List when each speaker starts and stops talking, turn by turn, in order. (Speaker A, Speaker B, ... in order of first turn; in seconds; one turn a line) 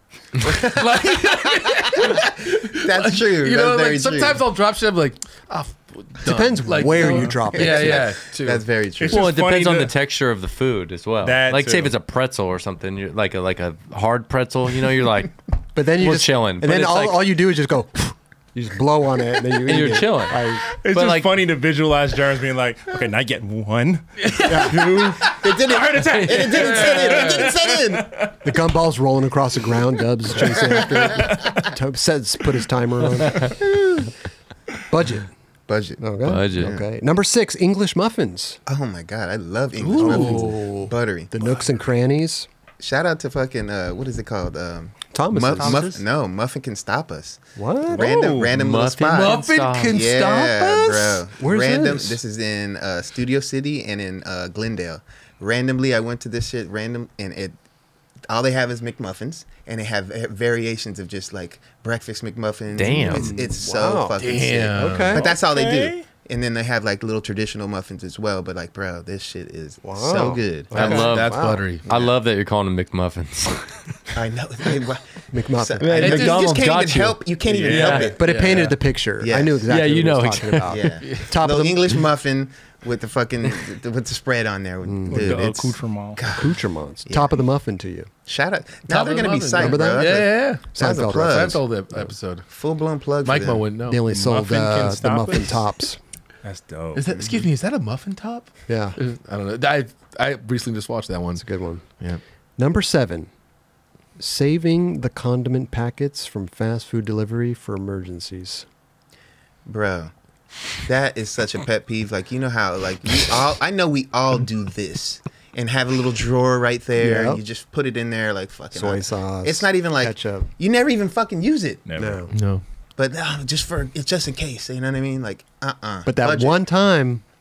Speaker A: 0.4-8.7
Speaker B: 0.4-4.4
Speaker C: 6.2-8.2
Speaker D: 7.0-7.5
Speaker B: 7.5-9.3
Speaker D: 9.0-9.9
Speaker E: 9.1-17.3
Speaker D: 11.2-11.9
Speaker C: 15.8-20.7
Speaker E: 19.7-21.4
Speaker D: 20.7-28.4
Speaker A: 24.2-27.6
Speaker C: 24.5-25.0
Speaker B: 25.3-28.1
Speaker C: 28.4-33.6
Speaker D: 30.4-31.7
Speaker B: 33.6-34.1
Speaker C: 34.9-35.3
Speaker B: 35.7-36.9
Speaker C: 36.0-38.6
Speaker E: 36.2-36.8
Speaker B: 38.7-41.6
Speaker A: 39.8-40.6
Speaker C: 40.0-42.5
Speaker B: 42.8-57.6
Speaker C: 45.1-46.0
Speaker C: 47.6-48.1
Speaker D: 48.0-48.5
Speaker E: 48.5-50.0
Speaker A: 49.1-51.3
Speaker C: 51.4-52.2
Speaker B: 58.3-71.1
Speaker E: 62.7-63.3
Speaker C: 63.0-65.3
Speaker A: 64.2-65.2
Speaker D: 65.1-66.1
Speaker C: 69.8-71.7
Speaker E: 70.7-73.8
Speaker A: 70.7-71.8
Speaker B: 71.9-72.2
Speaker B: 74.1-79.7
Speaker C: 75.3-76.3
Speaker E: 75.8-78.2
Speaker A: 76.0-76.5
Speaker D: 77.5-78.2
Speaker C: 77.8-82.1
Speaker A: 78.2-78.7
Speaker E: 79.7-80.8
Speaker B: 80.7-87.4
Speaker A: 81.0-81.3
Speaker C: 84.8-85.4
Speaker D: 85.1-86.3
Speaker C: 86.3-88.1
Speaker B: 88.3-91.6
Speaker A: 88.9-92.5
Speaker C: 89.6-91.6
Speaker B: 92.5-93.7
Speaker A: 93.2-94.0
Speaker C: 93.9-96.0
Speaker D: 94.1-95.7
Speaker D: 96.4-97.1
Speaker A: 97.0-101.5
Speaker B: 97.1-97.5
Speaker C: 98.7-99.0
Speaker C: 101.4-101.8
Speaker C: 102.6-103.3
Speaker C: 104.2-108.7
Speaker B: 109.7-110.1
Speaker B: 110.8-121.8
Speaker C: 117.0-117.4
Speaker C: 118.7-120.5
Speaker D: 121.9-122.3
Speaker C: 122.0-122.3
Speaker A: 122.3-122.6
Speaker B: 123.0-126.6
Speaker C: 126.0-127.2